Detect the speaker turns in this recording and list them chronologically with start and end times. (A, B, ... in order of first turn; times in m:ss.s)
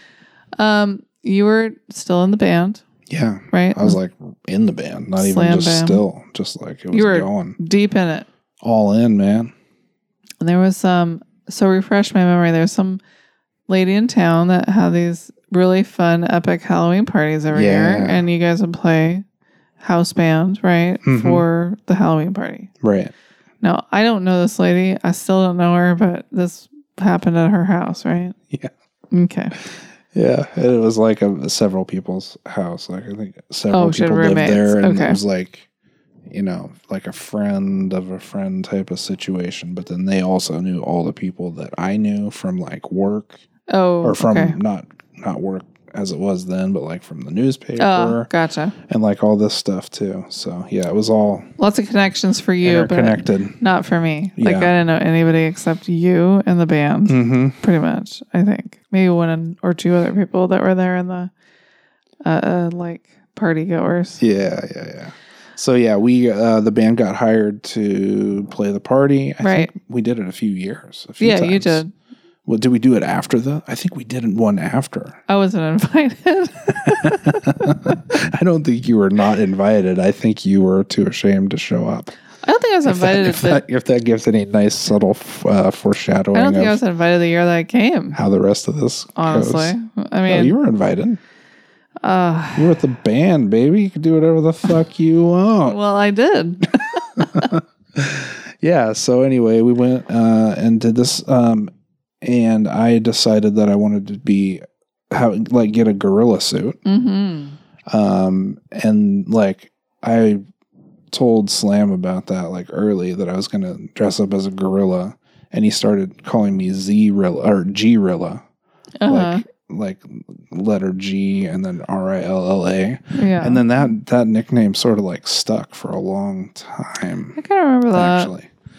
0:00.6-0:02.8 A
0:03.1-0:07.6 B
0:03.5-0:04.0 A
0:05.2-0:06.0 A
0:06.9-0:08.3 A
0:08.6-0:09.5 B
0:10.4-0:13.0 A
0:13.7-0:19.2 A
0:17.5-0:18.2 B
0:19.8-0:22.7 A
0:21.0-0:21.4 B
0:22.8-0:23.1 B
0:23.6-0:28.4 A
0:29.1-0:29.5 A
0:30.1-0:35.7 B
0:33.7-0:35.2 A
0:36.3-0:43.4 B
0:43.7-0:44.6 A
0:44.0-0:48.3 B
0:47.8-0:48.7 A
0:48.9-0:51.5 B
0:51.6-1:01.3 A
0:52.6-0:53.6 B
0:54.4-0:54.7 B
0:57.1-0:57.6 B
1:02.2-1:04.2 A
1:04.2-1:11.8 B
1:09.4-1:09.7 A
1:11.2-1:11.9 A
1:12.4-1:15.2 B
1:15.3-1:17.9 A
1:16.8-1:22.1 B
1:22.4-1:23.6 A
1:22.8-1:26.8 B
1:26.3-1:28.2 A
1:28.1-1:31.2 B
1:29.2-1:30.6 A
1:32.0-1:32.8 A
1:32.5-1:35.8 B
1:35.6-1:37.5 A
1:37.1-1:41.7 B
1:42.2-1:46.8 B
1:46.8-1:47.6 A
1:47.9-1:50.4 B
1:51.1-1:58.4 B
1:59.0-1:59.4 A
1:59.1-2:07.4 B
2:03.1-2:03.6 A
2:07.4-2:08.3 A
2:07.9-2:08.5 B